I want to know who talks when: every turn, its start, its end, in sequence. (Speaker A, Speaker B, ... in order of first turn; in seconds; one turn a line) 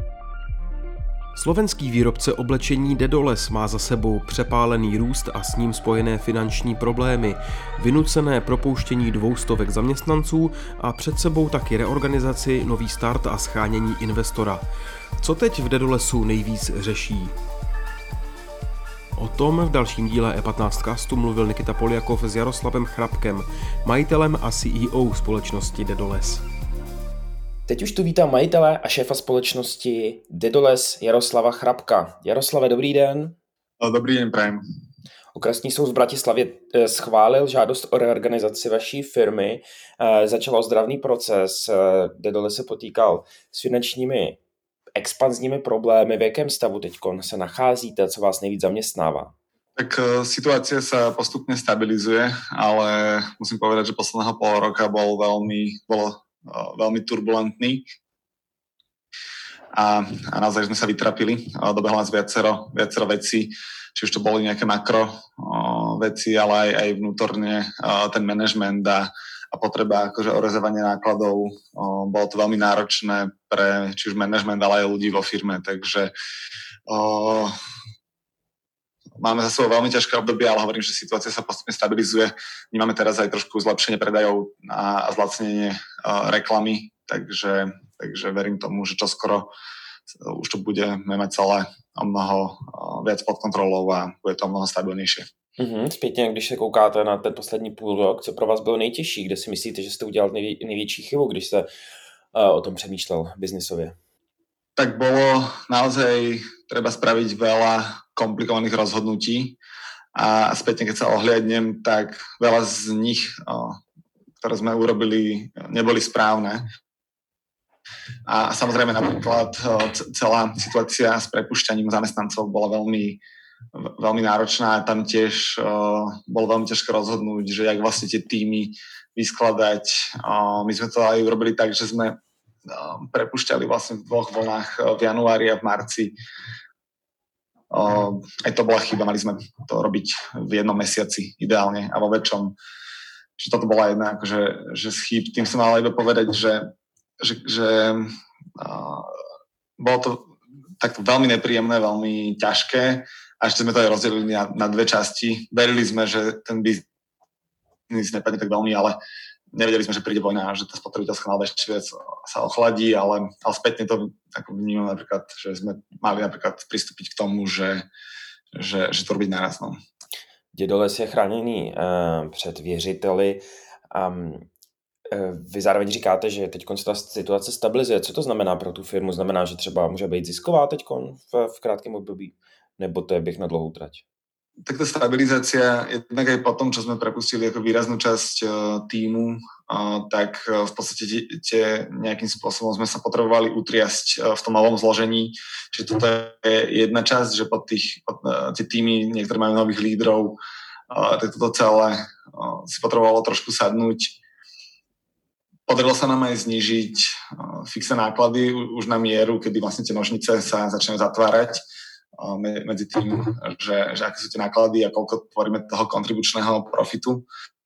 Speaker A: 1.3-14.6
Speaker A: 15.2-17.3
Speaker A: 19.2-26.4
Speaker B: 27.7-33.4
Speaker C: 33.8-34.6
Speaker B: 35.3-44.4
Speaker B: 45.0-49.3
Speaker C: 49.8-57.8
Speaker C: 59.7-76.1
Speaker C: 76.9-77.5
Speaker C: 79.2-89.5
Speaker C: 90.1-95.2
Speaker B: 95.6-101.7
Speaker B: 102.3-104.0
Speaker C: 104.8-109.6
Speaker C: 110.1-113.8
Speaker C: 114.4-116.6
Speaker C: 118.2-123.2
Speaker C: 123.7-132.1
Speaker C: 132.7-136.1
Speaker C: 137.7-142.5
Speaker C: 143.4-146.6
Speaker C: 147.2-149.2
Speaker C: 149.8-150.3
Speaker C: 150.8-156.8
Speaker C: 157.9-158.9
Speaker C: 159.5-167.8
Speaker C: 168.5-169.8
Speaker B: 170.5-174.5
Speaker B: 175.1-184.0
Speaker C: 184.6-200.4
Speaker C: 200.9-204.2
Speaker C: 205.7-211.6
Speaker C: 212.2-217.2